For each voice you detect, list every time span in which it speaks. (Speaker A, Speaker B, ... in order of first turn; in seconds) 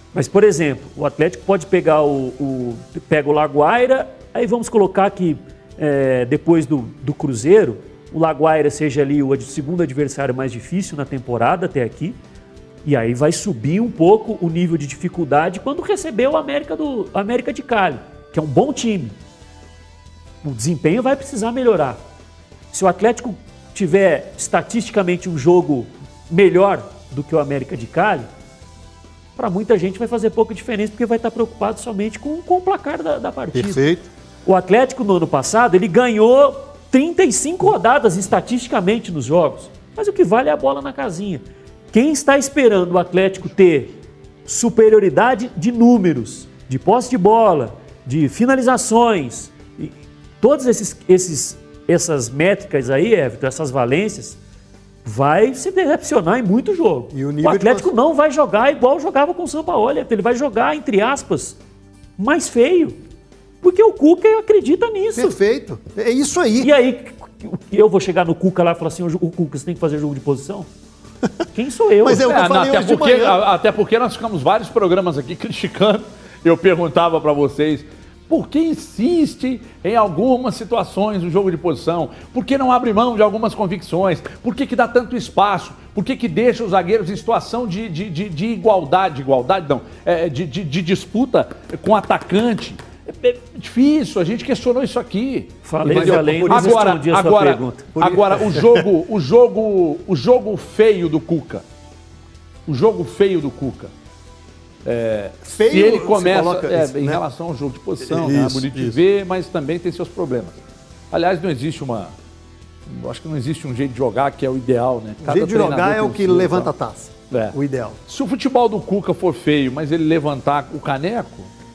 Speaker A: 0.1-12.2, 12.8-19.2, 20.4-22.0, 22.7-28.3, 29.4-33.9, 34.5-44.0, 44.5-54.4, 55.0-61.6, 62.2-63.0, 63.6-65.4, 66.6-70.7, 71.5-72.3, 95.7-98.0
Speaker B: 33.5-34.1, 57.1-57.9, 65.2-66.7, 72.0-73.4, 95.9-96.9, 98.0-98.9, 105.5-107.2, 108.0-109.0, 115.2-118.0
Speaker C: 72.3-101.6, 102.7-103.9, 104.8-110.6, 111.1-112.1, 112.9-116.7, 118.1-121.5